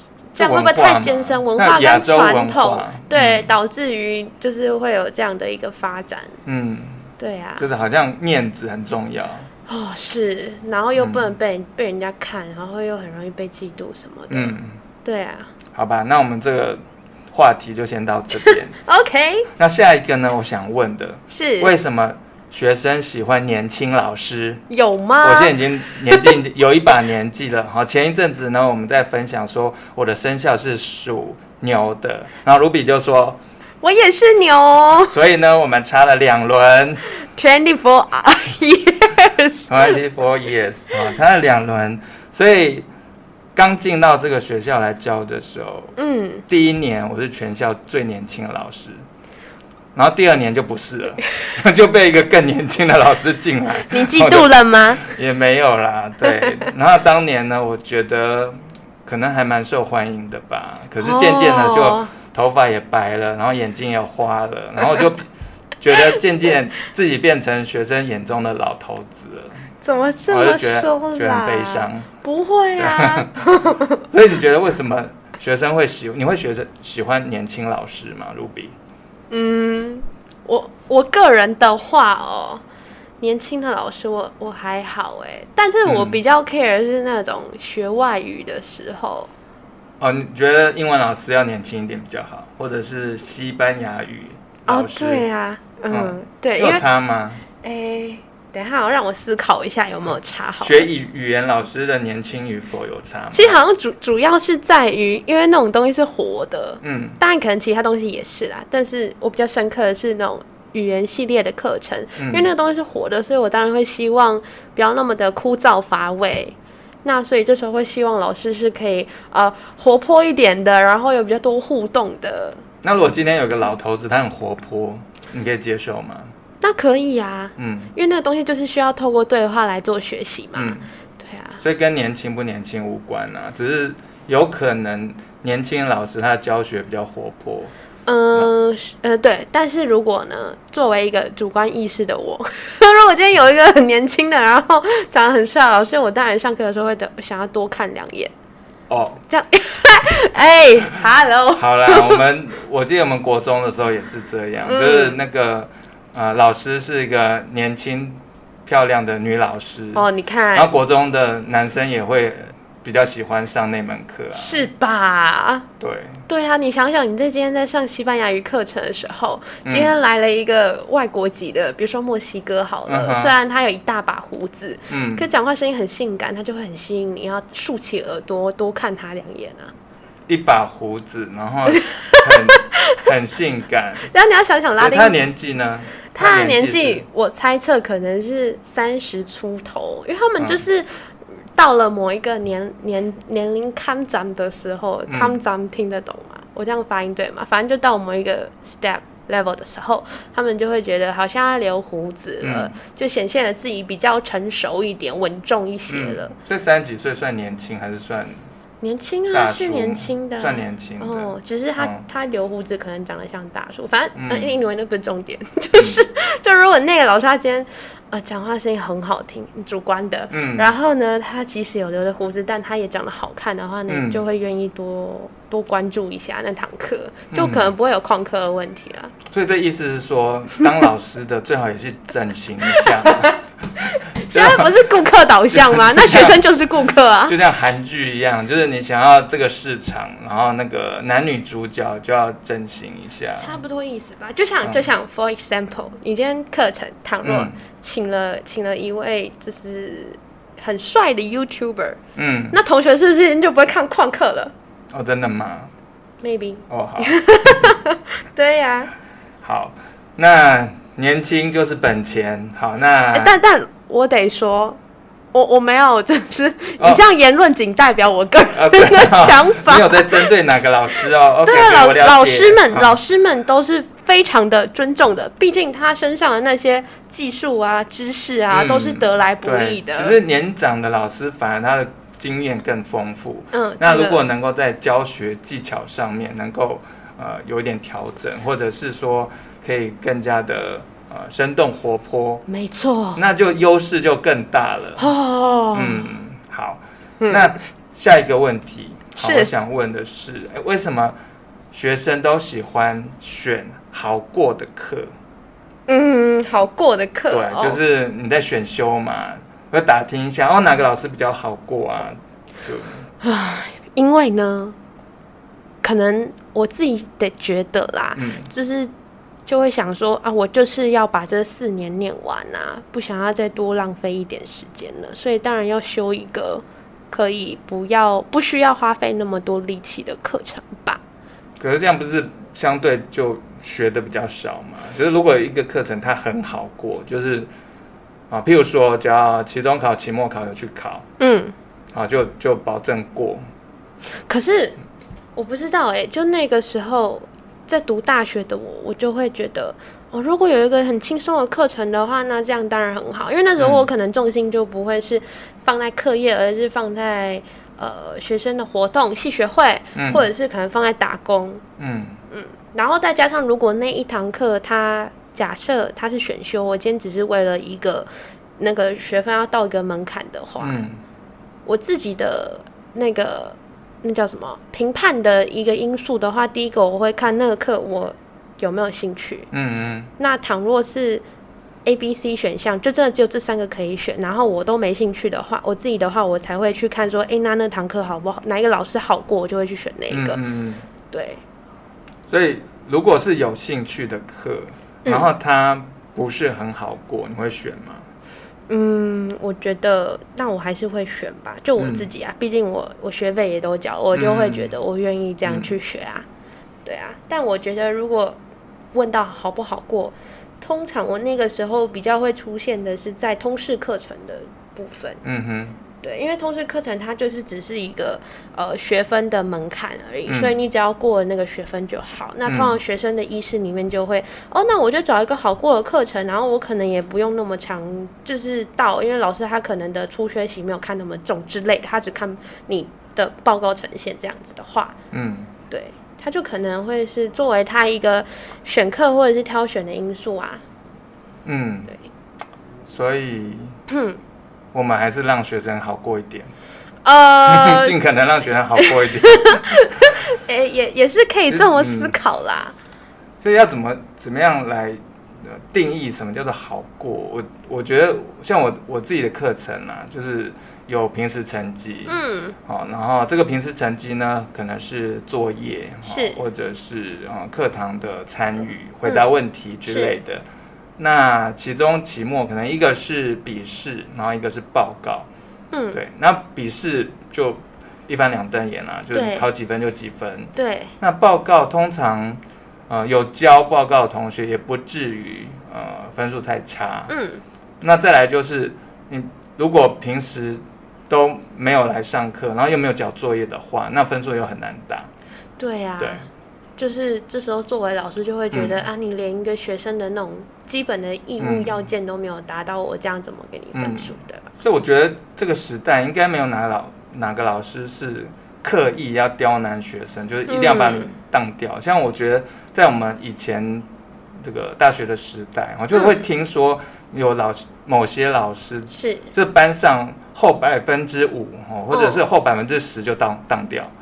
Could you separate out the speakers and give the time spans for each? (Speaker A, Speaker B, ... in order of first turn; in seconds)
Speaker A: 0.3-6.4, 7.2-7.7, 9.7-15.5, 18.4-19.5, 21.3-21.7, 24.7-26.3, 33.8-35.1, 37.2-39.9, 46.0-46.4, 53.9-55.1, 56.2-56.5, 61.0-62.1, 69.8-74.0, 79.3-82.6, 83.2-89.3, 94.7-96.8, 97.6-100.9, 103.3-122.6, 126.6-131.6, 138.1-148.3, 149.3-152.2, 154.6-155.2, 159.9-160.7, 164.3-165.7, 166.3-179.7, 181.7-182.8, 184.1-185.2, 186.1-191.0, 191.6-206.3, 208.8-229.1, 232.7-237.3, 243.4-252.0, 252.5-254.5, 256.2-258.9, 263.1-264.8, 265.3-270.3, 271.4-280.2, 283.5-284.2, 292.5-293.2, 295.0-296.1, 297.2-297.6, 299.2-299.5, 305.9-307.8, 313.2-314.8, 315.8-318.9, 319.5-331.0, 341.2-341.5, 344.3-344.8, 345.4-361.6, 362.3-370.8, 371.6-379.5, 380.2-381.2, 381.8-390.4, 391.1-391.4, 398.7-406.2, 406.8-408.4, 408.9-415.2, 416.0-434.9, 435.7-440.6, 443.9-444.2, 447.0-448.0, 448.8-452.7, 462.1-462.6, 466.0-466.4, 469.9-470.2, 475.7-476.0, 479.1-479.4, 480.6-480.9, 487.1-487.4, 495.6-504.5, 510.5-511.1, 518.9-519.3, 521.9-522.2
Speaker B: 0.4-3.5, 6.4-9.5, 11.0-11.3, 14.3-14.8, 15.7-18.8, 19.6-24.6, 25.2-33.4, 35.1-37.0, 39.7-42.9, 43.5-45.9, 46.5-49.0, 49.9-65.2, 65.8-69.6, 70.3-72.1, 72.8-73.3, 74.1-78.7, 85.8-86.2, 90.0-95.3, 95.9-97.4, 100.6-103.5, 106.8-107.2, 112.2-112.5, 122.8-126.3, 127.6-127.9, 130.5-130.9, 131.6-137.7, 148.9-149.2, 151.6-164.7, 165.8-166.2, 169.6-169.9, 172.8-173.3, 174.9-175.3, 180.3-184.1, 184.8-187.0, 190.4-190.6, 195.1-195.4, 202.4-202.7, 205.9-208.4, 209.3-212.0, 214.1-214.5, 215.7-216.0, 220.3-220.7, 223.9-224.2, 227.3-227.7, 229.3-233.3, 234.3-234.7, 235.5-236.4, 237.2-243.6, 247.2-247.5, 252.2-252.6, 254.9-255.7, 256.7-257.8, 259.4-263.3, 268.5-273.0, 278.5-292.4, 293.1-295.1, 295.7-301.2, 301.7-305.1, 307.3-313.1, 318.1-318.5, 331.6-337.5, 338.3-341.0, 341.9-343.4, 353.6-353.9, 359.9-360.3, 361.8-362.2, 370.6-371.0, 379.5-380.1, 390.1-390.9, 392.3-398.1, 401.8-402.1, 404.1-404.7, 405.4-405.7, 415.2-415.8, 420.3-420.5, 422.4-422.8, 435.1-435.5, 441.4-441.9, 442.9-443.7, 444.7-446.5, 447.4-449.8, 451.5-452.1, 453.4-470.4, 471.0-475.3, 475.9-487.1, 487.8-495.1, 496.0-496.2, 498.5-498.8, 501.4-501.8, 503.7-513.9, 514.4-523.9